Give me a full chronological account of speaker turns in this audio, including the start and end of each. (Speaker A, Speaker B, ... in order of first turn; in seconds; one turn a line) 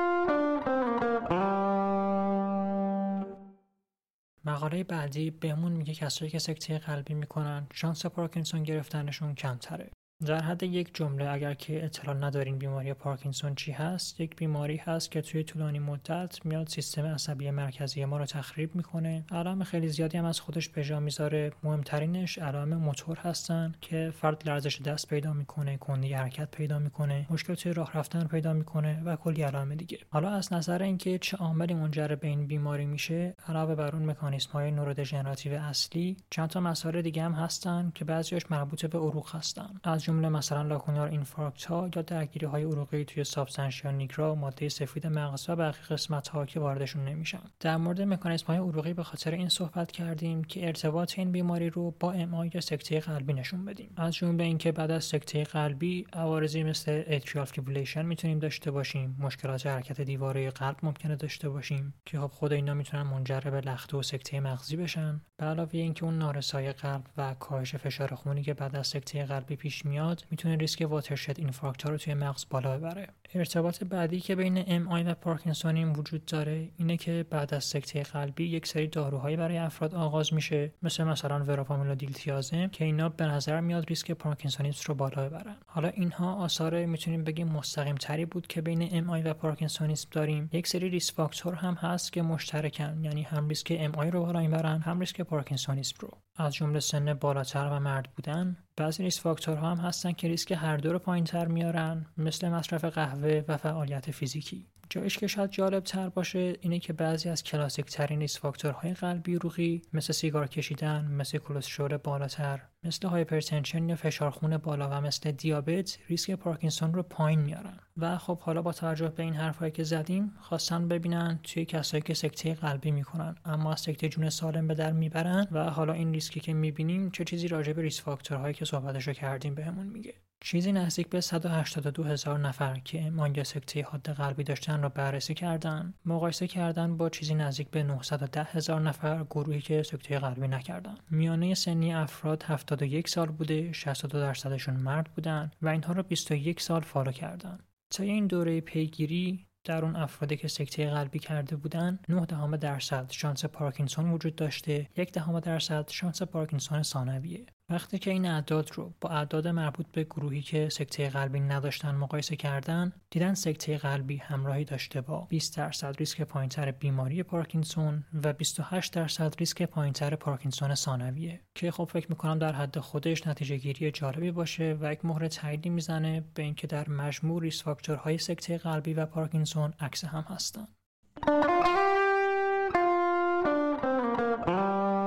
Speaker A: 4.4-180.7